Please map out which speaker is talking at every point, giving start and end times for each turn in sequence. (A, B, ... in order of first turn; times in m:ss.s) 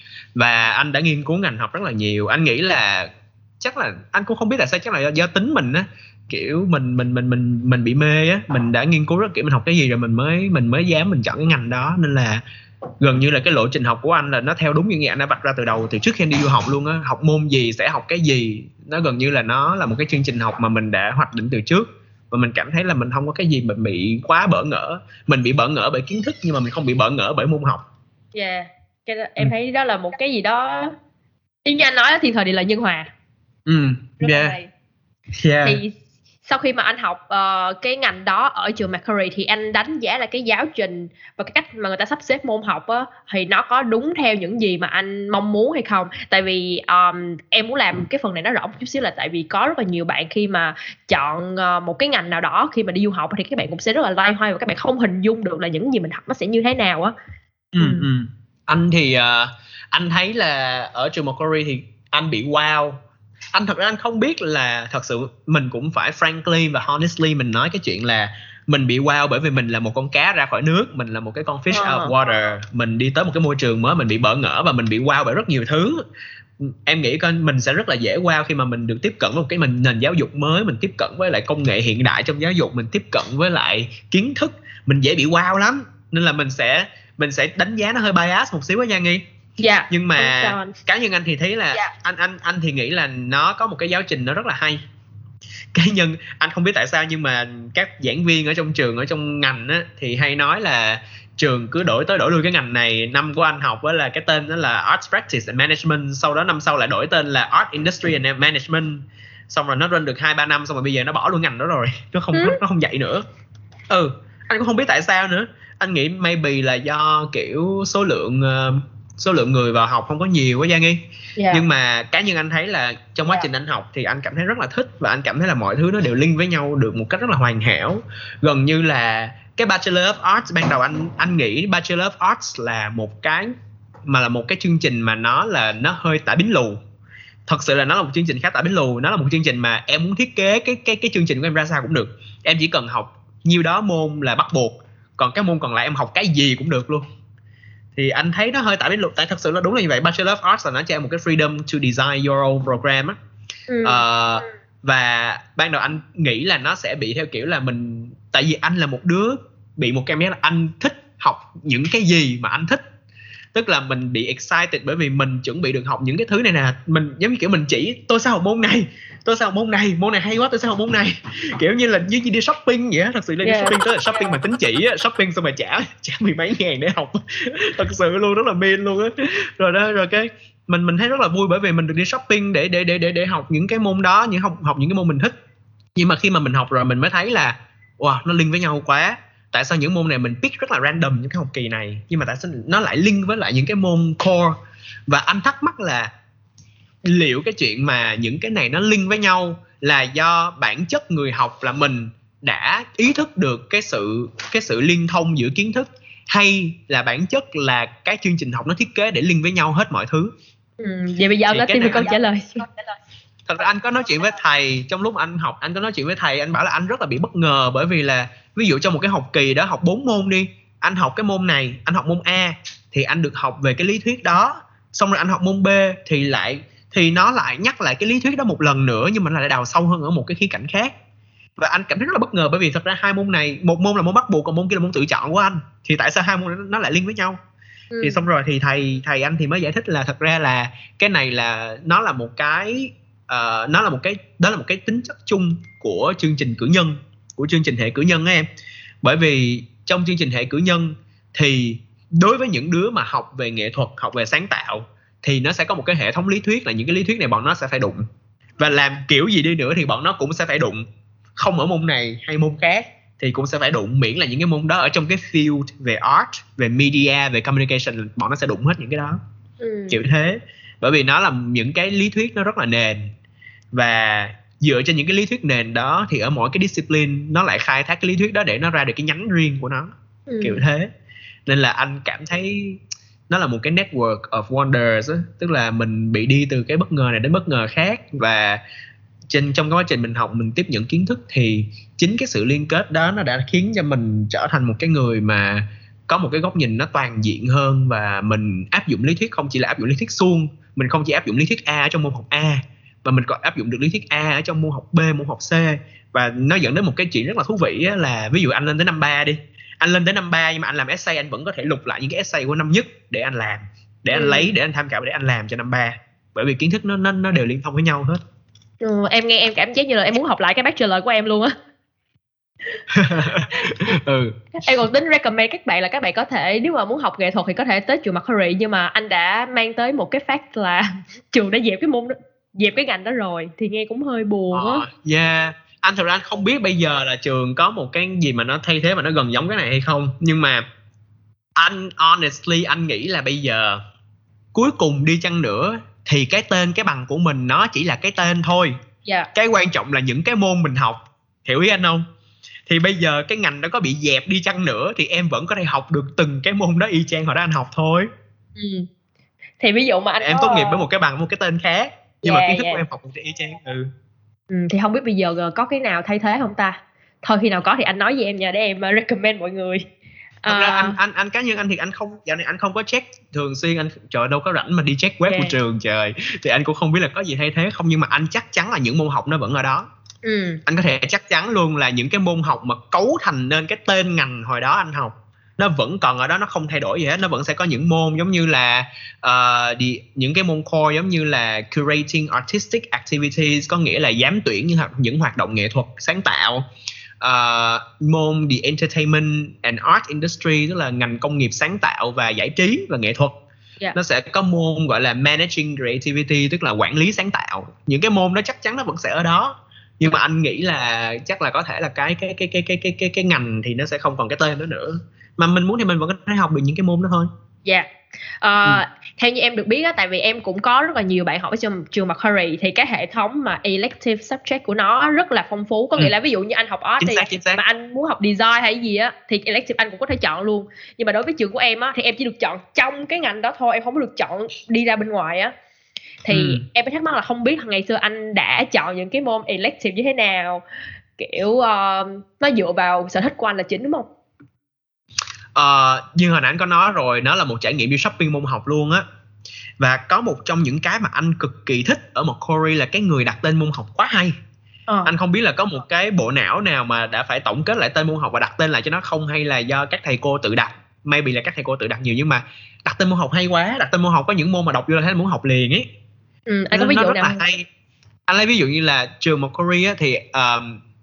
0:00.4-0:03.1 A
0:03.6-0:12.4 A
0:13.0-0:27.8 A
0:28.3-0:30.9 B
0:31.6-0:33.1 B
0:33.7-0:34.6 A
0:34.2-0:34.7 B
0:35.4-0:35.8 A
0:35.6-0:57.1 B
0:57.7-1:03.0 A
0:57.8-0:58.0 B
1:03.5-1:16.0 A
1:11.7-1:12.1 B
1:16.6-1:29.2 A
1:29.6-1:30.7 B
1:29.9-1:34.8 A
1:35.7-1:53.2 A
1:53.9-2:13.5 A
2:01.4-2:01.6 B
2:14.1-2:16.8 A
2:17.5-2:27.0 A
2:27.9-2:33.2 A
2:33.7-2:34.0 B
2:33.8-2:42.8 A
2:43.5-3:05.3 A
2:53.4-2:53.8 B
3:06.0-3:14.6 A
3:15.1-3:16.1 A
3:17.0-3:30.3 A
3:30.8-3:32.7 B
3:31.5-3:32.1 A
3:33.4-3:50.9 A
3:51.6-3:57.4 A
3:57.9-3:58.2 B
3:58.0-4:08.5 A
4:09.0-4:18.0 A
4:18.6-4:20.8 A
4:21.4-4:29.2 A
4:29.6-4:30.0 B
4:29.9-4:33.1 A
4:33.7-4:39.9 A
4:40.3-4:40.6 B
4:40.4-4:40.9 A
4:41.5-4:48.6 A
4:49.3-5:18.2 A
5:14.1-5:14.5 B
5:18.8-5:21.5 B
5:22.9-5:24.4 A
5:24.6-5:34.8 B
5:34.5-5:40.6 A
5:41.6-5:43.8 A
5:44.5-5:48.8 A
5:49.3-5:52.0 A
5:52.7-5:58.1 A
5:58.6-5:58.9 B
5:59.6-6:00.8 B
6:00.2-6:03.9 A
6:02.2-6:02.8 B
6:04.5-6:09.8 B
6:10.4-6:11.0 B
6:10.5-6:19.9 A
6:15.2-6:15.5 B
6:20.2-6:20.6 B
6:20.6-6:36.6 A
6:37.2-6:43.4 A
6:43.9-6:57.3 A
6:58.4-7:15.5 B
7:07.0-7:07.6 A
7:16.2-7:20.6 B
7:16.3-7:16.6 A
7:21.2-7:24.0 B
7:25.5-7:29.0 A
7:29.8-7:34.4 A
7:35.0-7:45.9 A
7:46.5-7:47.4 B
7:46.7-7:47.6 A
7:48.3-7:50.8 A